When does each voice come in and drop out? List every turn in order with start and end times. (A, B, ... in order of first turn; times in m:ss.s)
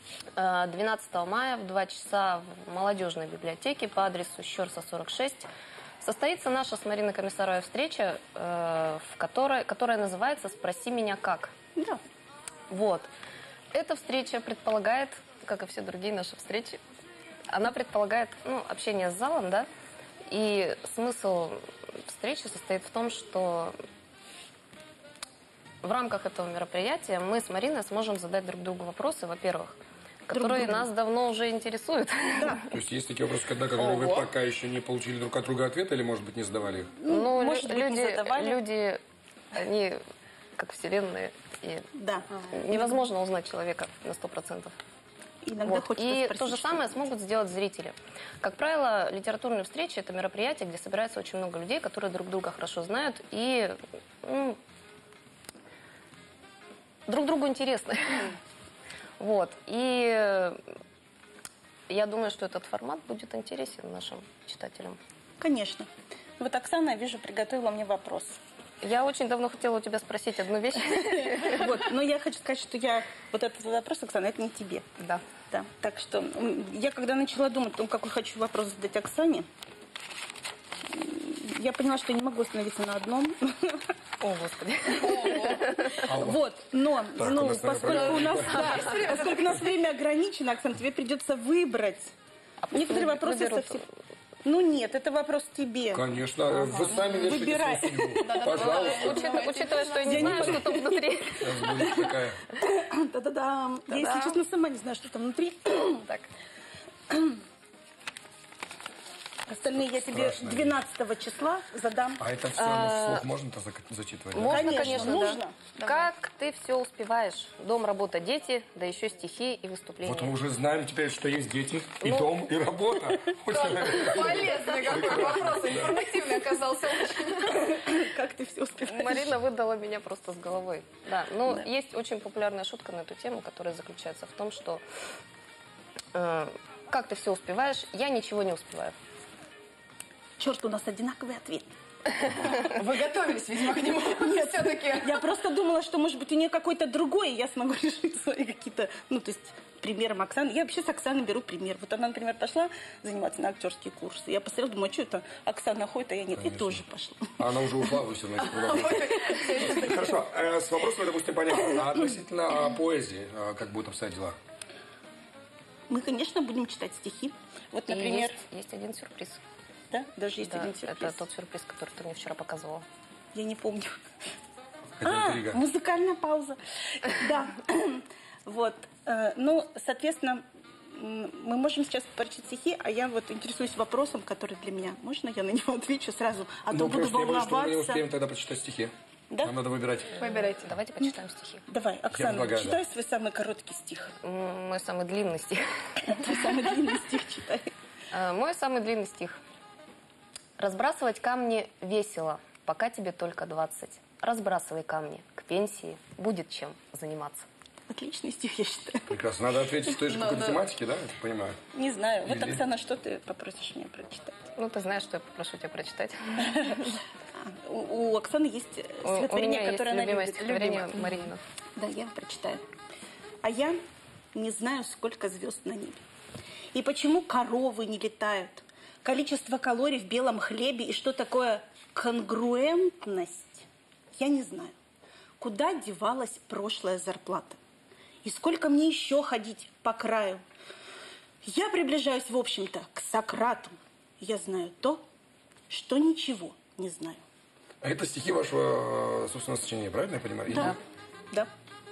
0:00.4-0:05.5 A
0:06.0-0:11.5 A
0:12.7-0:13.1 A
0:13.7-0:16.8 A
0:17.5-0:19.7 A
0:20.3-0:23.7 A
0:25.8-0:32.7 A
0:30.3-0:30.9 B
0:32.4-0:32.6 B
0:32.7-0:37.0 C
0:33.8-0:34.1 D
0:37.0-0:38.7 B
0:37.1-0:39.0 A
0:39.5-0:40.0 A
0:40.6-0:41.9 A
0:41.9-0:42.8 B
0:42.4-0:44.7 A
0:45.4-0:47.0 B
0:45.6-0:54.6 A
0:57.1-0:58.4 A
0:59.2-1:00.6 A
1:01.9-1:05.0 A
1:05.4-1:08.4 B
1:08.8-1:11.7 A
1:10.8-1:14.8 B
1:15.0-1:15.2 A
1:15.5-1:19.4 B
1:20.9-1:23.9 B
1:24.2-1:26.3 A
1:24.9-1:25.7 D
1:26.0-1:26.4 C
1:26.1-1:32.1 B
1:27.0-1:28.6 C
1:28.5-1:29.3 A
1:28.7-1:29.0 D
1:32.6-1:33.8 A
1:32.7-1:33.8 B
1:34.4-1:39.2 B
1:35.9-1:39.3 C
1:38.2-1:40.3 D
1:38.4-1:41.9 A
1:40.0-1:41.0 B
1:40.1-1:40.6 C
1:41.4-1:42.5 C
1:41.6-1:46.1 B
1:43.9-1:44.4 A
1:47.1-1:47.4 B
1:49.5-1:52.2 B
1:49.8-1:50.8 C
1:52.2-1:55.2 C
1:52.5-1:53.2 A
1:54.3-2:00.3 A
1:54.4-1:55.7 B
1:55.8-1:56.1 D
2:00.0-2:05.9 C
2:02.0-2:02.3 A
2:03.5-2:07.7 D
2:04.5-2:05.6 A
2:07.3-2:09.4 B
2:08.8-2:14.8 A
2:16.1-2:19.0 A
2:20.4-2:21.7 B
2:22.2-2:25.2 D
2:24.0-2:37.3 B
2:36.4-2:36.8 C
2:37.4-2:44.4 C
2:38.4-2:40.0 D
2:45.9-2:48.4 B
2:47.9-2:49.4 A
2:49.9-2:51.2 B
2:50.4-2:52.8 A
2:53.3-2:54.0 B
2:55.0-2:55.6 C
2:55.0-3:08.0 B
3:06.7-3:10.2 C
3:10.1-3:11.6 A
3:10.2-3:10.7 D
3:11.0-3:14.1 B
3:12.1-3:12.8 C
3:14.2-3:16.1 A
3:16.0-3:17.7 B
3:18.1-3:19.4 A
3:20.6-3:27.4 A
3:27.9-3:29.1 B
3:29.1-3:31.6 C
3:30.1-3:30.6 D
3:31.7-3:34.5 B
3:32.2-3:32.6 C
3:34.6-3:37.0 A
3:36.4-3:42.6 B
3:39.0-3:41.4 A
3:43.4-3:43.8 B
3:44.3-3:46.0 B
3:46.7-3:54.7 B
3:55.4-3:57.6 B
3:58.2-4:00.4 B
4:01.4-4:05.0 B
4:05.7-4:07.2 B
4:07.8-4:10.8 C
4:10.5-4:10.8 B